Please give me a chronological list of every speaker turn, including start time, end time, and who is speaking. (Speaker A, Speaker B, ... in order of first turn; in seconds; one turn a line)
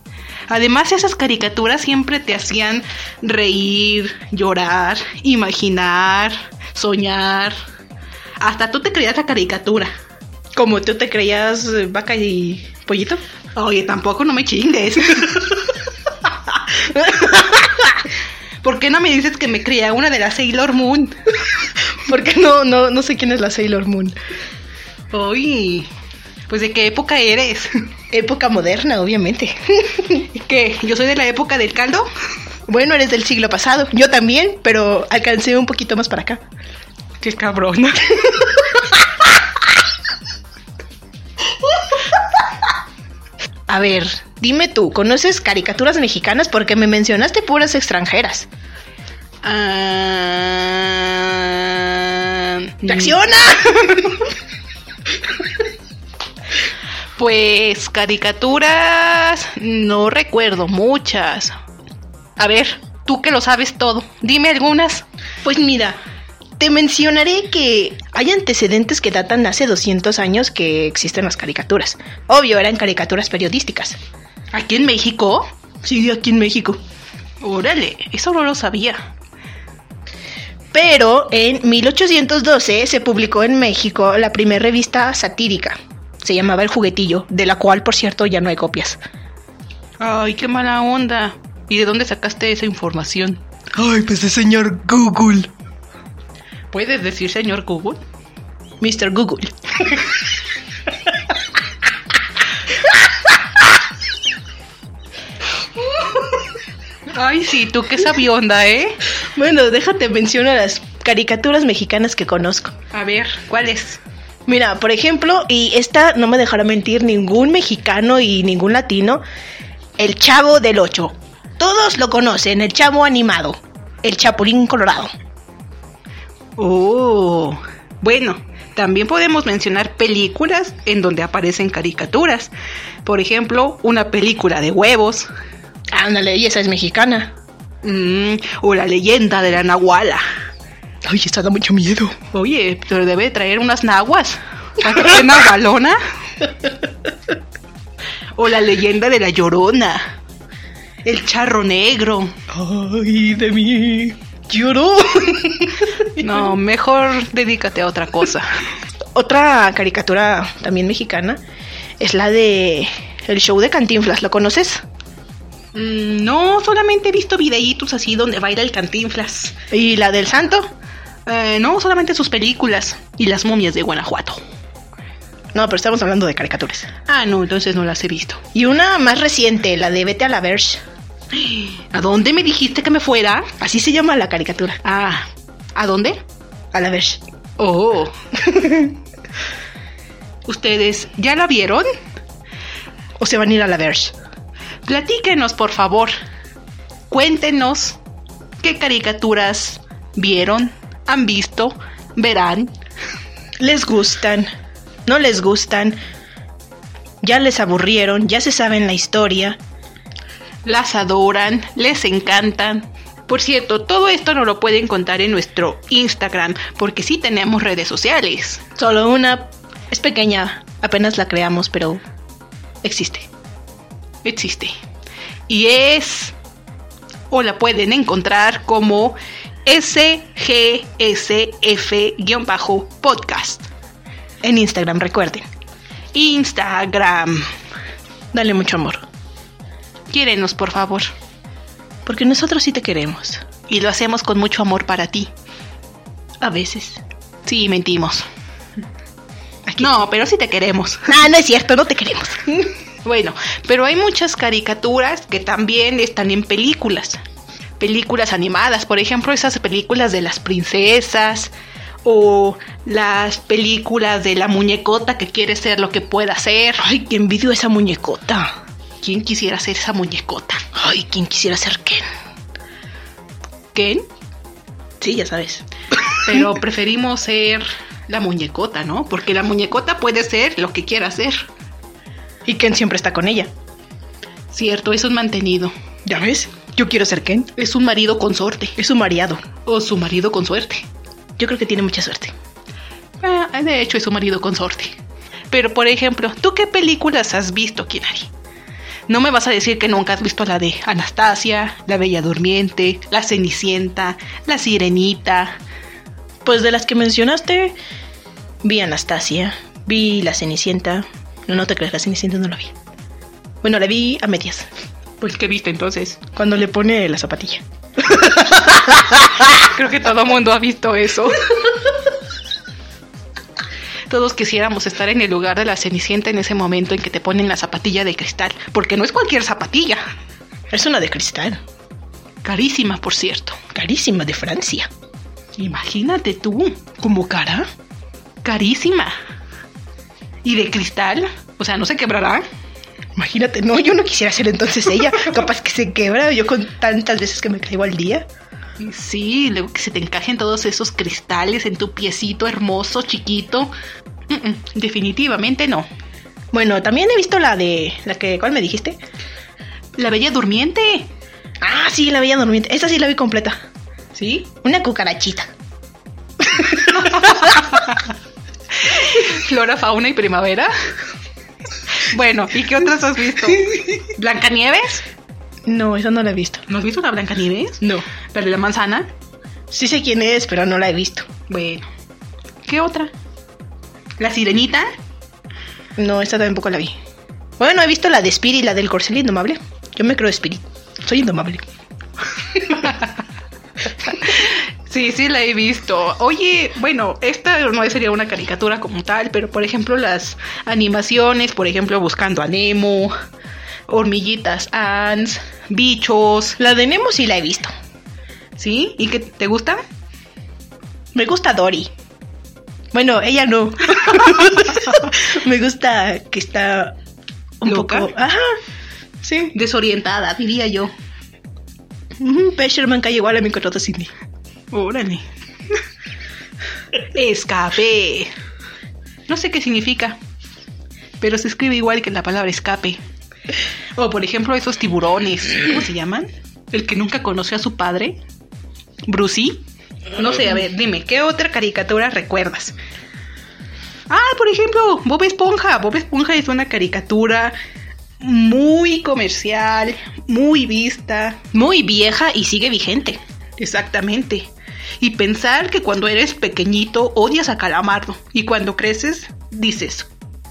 Speaker A: 0.5-7.5
Speaker A: 8.4-9.9
Speaker B: 10.5-13.2
Speaker A: 13.5-15.8
Speaker B: 16.6-17.9
Speaker A: 18.6-21.1
Speaker B: 22.0-24.1
Speaker A: 25.1-25.9
Speaker A: 26.5-27.9
Speaker B: 28.1-30.2
Speaker A: 30.3-32.1
Speaker B: 32.7-36.4
Speaker A: 37.2-38.7
Speaker B: 43.7-48.5
Speaker A: 49.4-53.2
Speaker B: 52.8-54.2
Speaker A: 57.2-61.5
Speaker A: 62.4-65.0
Speaker B: 65.4-66.0
Speaker B: 66.6-74.0
Speaker A: 74.5-75.5
Speaker B: 75.8-76.8
Speaker A: 77.4-79.0
Speaker B: 80.7-89.0
Speaker A: 90.0-93.4
Speaker B: 93.8-95.5
Speaker A: 96.7-98.0
Speaker B: 98.8-100.0
Speaker A: 107.1-109.0
Speaker B: 109.3-112.7
Speaker A: 112.9-114.0
Speaker B: 114.5-119.2
Speaker B: 120.0-125.1
Speaker A: 126.6-132.5
Speaker A: 133.0-135.3
Speaker B: 135.9-137.3
Speaker A: 137.8-140.2
Speaker B: 141.0-142.2
Speaker A: 142.3-146.0
Speaker A: 148.3-150.0
Speaker A: 151.0-152.4
Speaker B: 152.5-156.3
Speaker A: 156.1-158.5
Speaker B: 159.1-161.4
Speaker B: 162.0-164.8
Speaker A: 165.7-169.6
Speaker B: 169.7-170.7
Speaker A: 171.2-174.4
Speaker B: 175.5-176.9
Speaker A: 177.1-178.4
Speaker B: 178.5-180.8
Speaker A: 181.3-183.5
Speaker B: 183.6-184.8
Speaker A: 184.8-186.2
Speaker B: 186.7-187.2
Speaker A: 187.6-188.9
Speaker A: 190.4-191.9
Speaker B: 193.2-194.1
Speaker A: 194.8-196.1
Speaker A: 197.1-198.0
Speaker A: 198.6-202.7
Speaker B: 203.6-204.5
Speaker B: 205.1-206.0
Speaker B: 207.2-209.6
Speaker A: 210.6-218.6
Speaker B: 218.8-222.0
Speaker B: 222.8-223.3
Speaker A: 224.2-224.7
Speaker A: 225.5-226.3
Speaker A: 227.3-233.7
Speaker B: 234.4-235.4
Speaker A: 236.1-237.5
Speaker B: 238.3-239.0
Speaker A: 240.1-241.1
Speaker B: 242.0-243.4
Speaker A: 243.7-245.3
Speaker B: 246.4-247.0
Speaker A: 247.4-248.2
Speaker B: 249.7-249.9
Speaker A: 249.8-251.2
Speaker B: 251.1-252.7
Speaker A: 253.0-257.2
Speaker A: 257.8-261.5
Speaker A: 262.0-266.8
Speaker B: 266.8-268.5
Speaker A: 269.0-270.6
Speaker B: 270.7-272.0
Speaker A: 273.7-274.1
Speaker B: 275.0-275.6
Speaker A: 276.1-281.5
Speaker B: 282.4-283.5
Speaker A: 284.5-285.7
Speaker B: 286.1-287.5
Speaker A: 287.6-288.8
Speaker B: 288.8-289.4
Speaker A: 289.6-290.8
Speaker B: 291.4-292.3
Speaker A: 293.2-294.9
Speaker A: 295.5-298.3
Speaker A: 299.1-305.6
Speaker B: 306.4-307.7
Speaker B: 308.6-312.7
Speaker B: 313.6-314.7
Speaker A: 315.2-316.2
Speaker B: 316.4-319.4
Speaker A: 319.4-321.7
Speaker A: 324.1-330.0
Speaker B: 330.7-331.6
Speaker A: 332.4-333.6
Speaker B: 333.7-334.9
Speaker A: 335.6-337.4
Speaker B: 337.1-337.6
Speaker A: 338.4-339.1
Speaker A: 340.4-342.4
Speaker B: 343.1-348.3
Speaker A: 348.8-353.7
Speaker A: 354.3-355.9
Speaker B: 356.5-359.0
Speaker A: 360.0-361.1
Speaker B: 361.6-363.6
Speaker A: 364.1-364.5
Speaker B: 364.6-365.5
Speaker A: 366.5-368.0
Speaker A: 368.8-370.7
Speaker A: 372.0-375.0
Speaker B: 375.6-376.6
Speaker A: 376.7-379.1
Speaker B: 379.7-381.3
Speaker A: 381.5-381.9
Speaker A: 382.6-383.1
Speaker A: 384.2-384.9
Speaker B: 386.0-386.9
Speaker B: 387.6-391.6
Speaker A: 392.5-393.1
Speaker A: 394.0-403.1
Speaker A: 403.9-406.6
Speaker B: 406.6-407.7
Speaker A: 408.6-409.8
Speaker B: 411.1-411.9
Speaker B: 412.9-416.9
Speaker B: 417.6-418.6
Speaker A: 417.6-418.1
Speaker B: 419.2-419.5
Speaker A: 419.5-420.9
Speaker B: 422.2-424.1
Speaker A: 424.7-425.2
Speaker A: 427.1-428.3
Speaker A: 429.3-430.2
Speaker A: 431.2-433.0
Speaker A: 434.0-438.2
Speaker A: 439.1-442.8
Speaker A: 444.1-447.5
Speaker A: 448.2-451.4
Speaker B: 451.5-453.2
Speaker A: 453.6-460.1